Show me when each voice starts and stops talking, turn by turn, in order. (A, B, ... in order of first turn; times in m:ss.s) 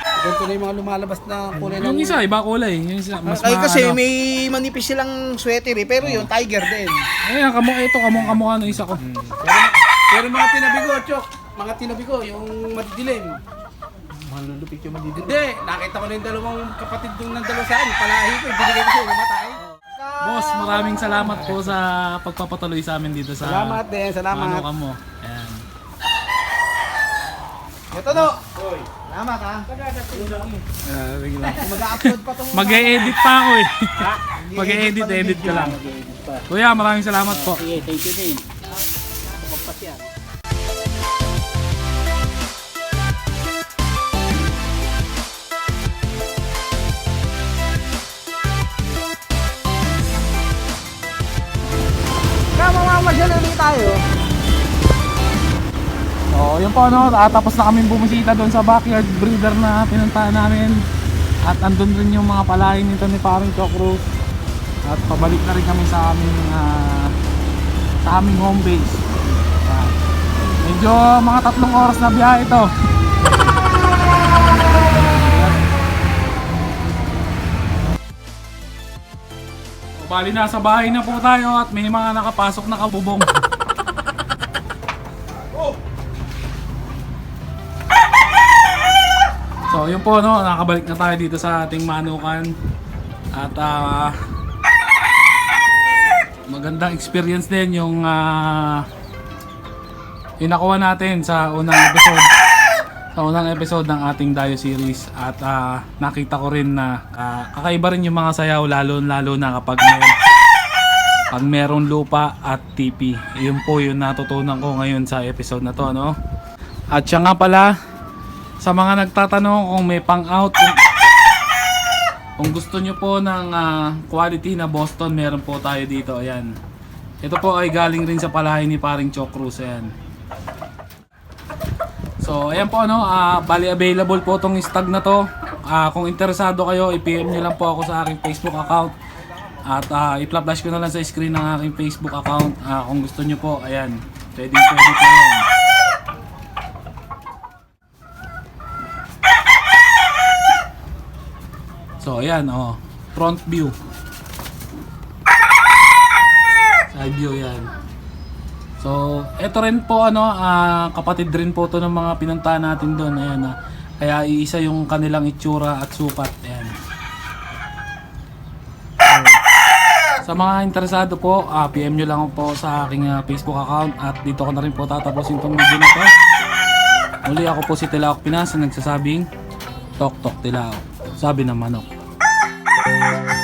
0:00.2-0:02.2 A
0:01.6-0:04.0 B
0:03.3-0:07.0 C
0:07.2-0:09.0 B
0:09.4-0:13.4 A
0:14.3-0:15.4 C
0:15.2-0:19.6 A
0:19.8-0:21.4 C
0:20.2-0:25.6 B
0:23.4-0:24.6 A
0:27.9-0:29.7 C
0:29.7-0:30.6 A
0:30.8-0:35.8 B
0:31.5-0:33.2 C
0:34.0-0:34.3 A
0:34.4-0:35.7 C
0:35.3-0:36.5 A
0:36.5-0:37.6 B
0:37.3-0:38.5 A
0:39.3-0:40.1 A
0:52.6-0:54.0 C
0:56.3-1:00.8 B
1:01.4-1:04.0 B
1:04.8-1:07.1 B
1:08.0-1:09.0 B
1:09.6-1:10.0 B
1:10.6-1:12.7 B
1:20.0-1:23.3 B
1:29.7-1:32.5 B
1:33.3-1:34.1 B
1:36.5-1:38.8 B
1:40.4-1:42.3 B
1:43.2-1:50.1 B
1:51.3-1:56.2 B
1:56.9-1:57.7 B
1:58.6-2:00.8 B
2:02.4-2:06.5 B
2:07.2-2:09.9 B
2:12.2-2:18.9 B
2:19.6-2:25.4 B
2:32.0-2:33.7 B
2:36.9-2:37.7 B
2:38.8-2:46.7 B
2:49.0-2:49.4 B
2:50.2-2:56.1 B
2:57.2-2:59.3 B
3:00.0-3:01.8 B